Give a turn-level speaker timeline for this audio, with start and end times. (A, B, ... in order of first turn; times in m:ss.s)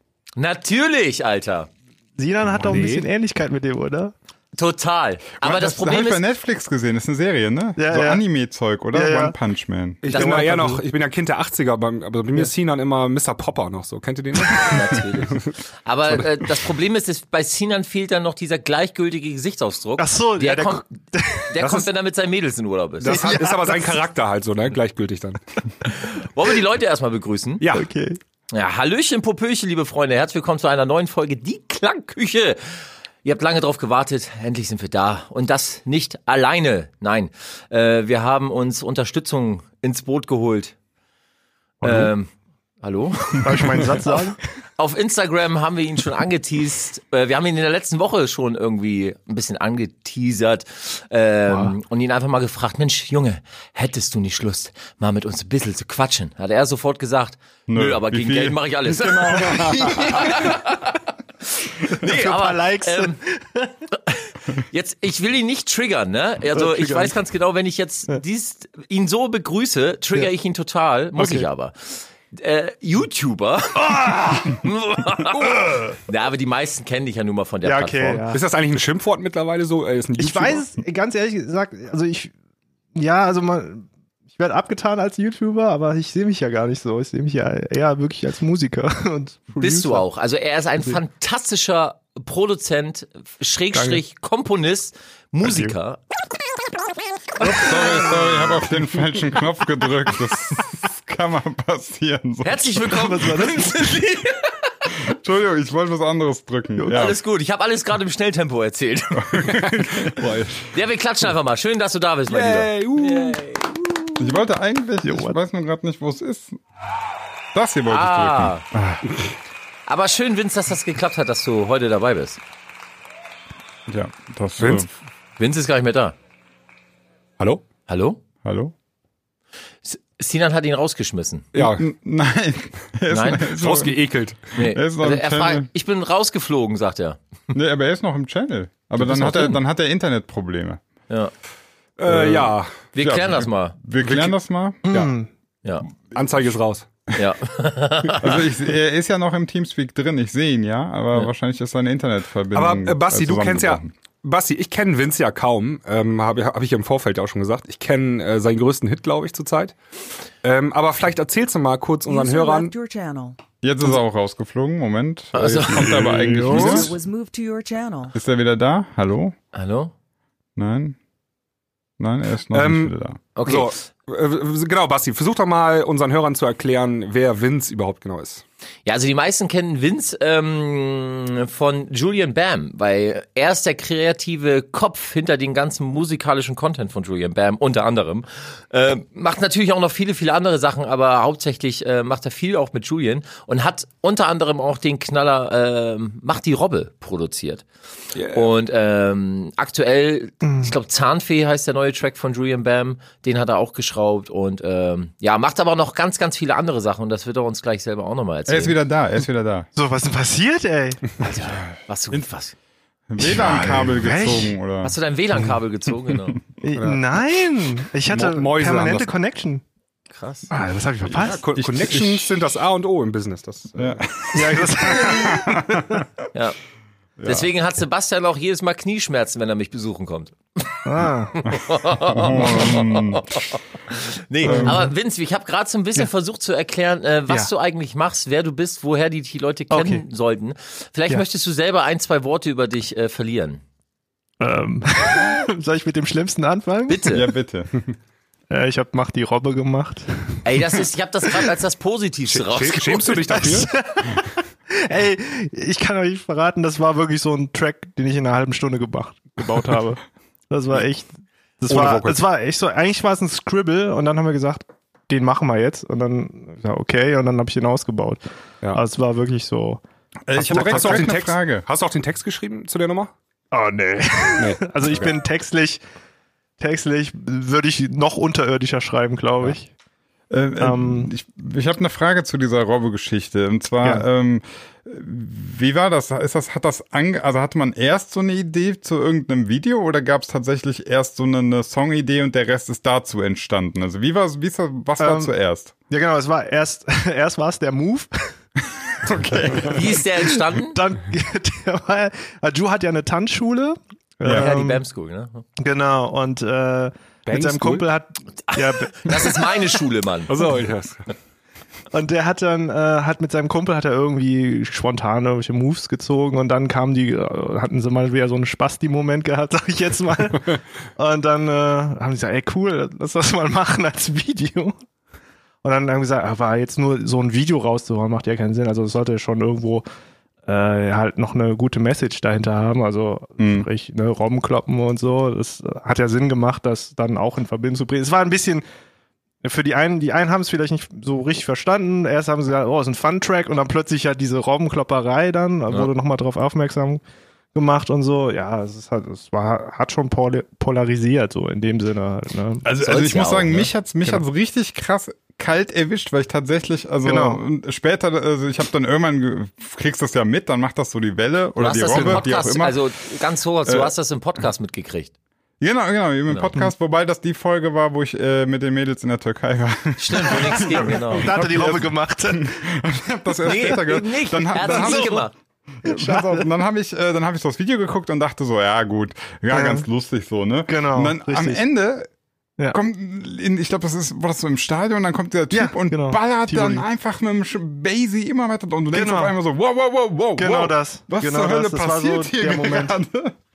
0:00.4-0:01.7 A
0:02.2-0:04.1 B
0:02.5-0:03.0 C
0:04.5-0:06.2 A
0:05.4-0:10.0 D
0:07.8-0:08.2 B
0:08.9-0:09.4 B
0:10.0-0:14.8 C
0:10.1-0:10.8 B
0:10.1-0:10.8 A
0:14.6-0:20.9 A
0:20.0-0:21.5 B
0:21.5-0:23.2 A
0:21.6-0:21.9 C
0:23.0-0:25.5 C
0:23.0-0:24.0 B
0:25.9-0:27.6 A
0:27.6-0:27.8 C
0:27.7-0:28.2 B
0:28.5-0:32.6 A
0:33.2-0:40.7 A
0:41.8-0:42.3 A
0:42.8-0:44.1 A
0:43.4-0:44.4 B
0:44.8-1:01.0 A
0:51.5-0:51.7 B
0:57.7-1:00.4 D
0:59.4-1:00.5 B
1:01.6-1:03.2 A
1:02.0-1:03.7 B
1:04.7-1:18.2 A
1:06.5-1:07.2 B
1:11.2-1:11.5 B
1:13.8-1:14.6 B
1:15.3-1:16.0 B
1:17.6-1:18.4 B
1:18.3-1:20.6 C
1:20.2-1:22.3 B
1:22.9-1:30.0 B
1:29.6-1:36.0 A
1:35.4-1:35.7 B
1:37.4-1:42.9 D
1:42.4-1:44.5 A
1:42.9-1:44.0 B
1:45.1-1:47.2 D
1:46.9-1:49.5 A
1:49.2-1:50.2 D
1:49.5-1:50.6 C
1:50.7-1:53.5 A
1:52.3-1:53.7 C
1:54.2-1:56.6 D
1:55.0-1:55.4 B
1:57.5-1:59.0 D
1:57.9-1:58.6 A
1:59.9-2:02.4 A
2:03.9-2:04.9 D
2:04.6-2:04.9 C
2:05.4-2:06.2 A
2:07.9-2:08.2 A
2:08.4-2:08.7 D
2:09.8-2:11.5 A
2:11.5-2:11.8 C
2:11.6-2:14.0 D
2:13.1-2:13.5 A
2:13.6-2:14.6 C
2:14.6-2:17.2 A
2:14.6-2:15.7 D
2:17.5-2:20.8 D
2:19.1-2:19.5 A
2:22.0-2:22.9 C
2:22.1-2:24.8 D
2:22.9-2:23.8 A
2:24.0-2:24.3 C
2:24.9-2:25.1 C
2:24.9-2:25.3 B
2:26.1-2:26.9 C
2:27.1-2:28.4 A
2:28.2-2:33.9 D
2:32.5-2:39.7 C
2:40.4-2:42.7 C
2:42.1-2:43.4 E
2:43.6-2:47.0 D
2:45.3-2:45.9 A
2:46.0-2:46.9 B
2:46.0-2:46.7 C
2:46.5-2:48.1 E
2:48.1-2:49.3 D
2:49.5-2:49.9 A
2:50.6-2:51.0 D
2:52.0-2:53.2 D
2:52.5-2:58.4 C
2:53.4-2:53.7 A
2:58.8-3:17.6 A
3:18.1-3:18.5 C
3:18.3-3:28.8 A
3:20.4-3:20.7 B
3:28.5-3:29.7 D
3:29.7-3:31.3 B
3:31.2-3:32.5 A
3:33.1-3:34.9 D
3:33.2-3:34.6 B
3:34.8-3:36.4 A
3:36.6-3:39.6 B
3:36.8-3:37.0 C
3:38.1-3:39.1 C
3:40.1-3:40.5 A
3:40.5-3:41.4 B
3:41.1-3:44.0 C
3:41.6-3:42.3 D
3:43.8-3:46.0 D
3:44.3-3:46.0 B
3:47.2-3:47.5 D
3:47.2-3:50.7 A
3:50.8-3:51.4 B
3:51.3-4:03.6 A
3:51.5-3:53.4 D
3:54.4-3:54.9 B
3:54.4-3:54.8 D
3:59.7-4:00.0 B
4:04.4-4:07.2 B
4:06.9-4:07.3 A
4:07.1-4:07.8 D
4:08.5-4:10.6 B
4:10.4-4:13.2 A
4:12.3-4:13.7 C
4:13.3-4:29.8 B
4:21.7-4:22.2 C
4:30.3-4:31.6 D
4:30.4-4:33.1 C
4:30.4-4:31.1 B
4:33.5-4:35.8 B
4:34.4-4:35.1 C
4:36.6-4:39.7 B
4:40.3-4:55.7 D
4:40.6-4:41.1 B
4:55.0-4:55.3 B
4:55.9-4:58.4 B
4:59.0-4:59.9 D
4:59.6-5:00.8 A
5:00.2-5:04.8 B
5:04.3-5:05.4 A
5:05.6-5:09.5 B
5:07.2-5:07.9 C
5:08.5-5:10.3 A
5:10.3-5:11.0 C
5:11.9-5:24.8 B
5:25.6-5:29.8 B
5:30.4-5:38.6 B
5:33.4-5:33.7 D
5:39.4-5:47.0 B
5:47.5-5:52.6 B
5:52.6-6:02.8 D
5:52.8-5:53.7 A
5:57.0-5:57.4 B
6:01.6-6:05.1 A
6:03.7-6:03.9 D
6:05.6-6:15.3 D
6:10.0-6:11.3 A
6:10.4-6:12.6 B
6:13.4-6:15.3 A
6:14.6-6:15.2 B
6:15.8-6:22.1 D
6:15.8-6:16.5 B
6:19.5-6:19.8 B
6:20.7-6:21.6 B
6:22.7-6:33.4 D
6:25.5-6:26.8 B
6:28.9-6:29.3 B
6:30.4-6:33.0 B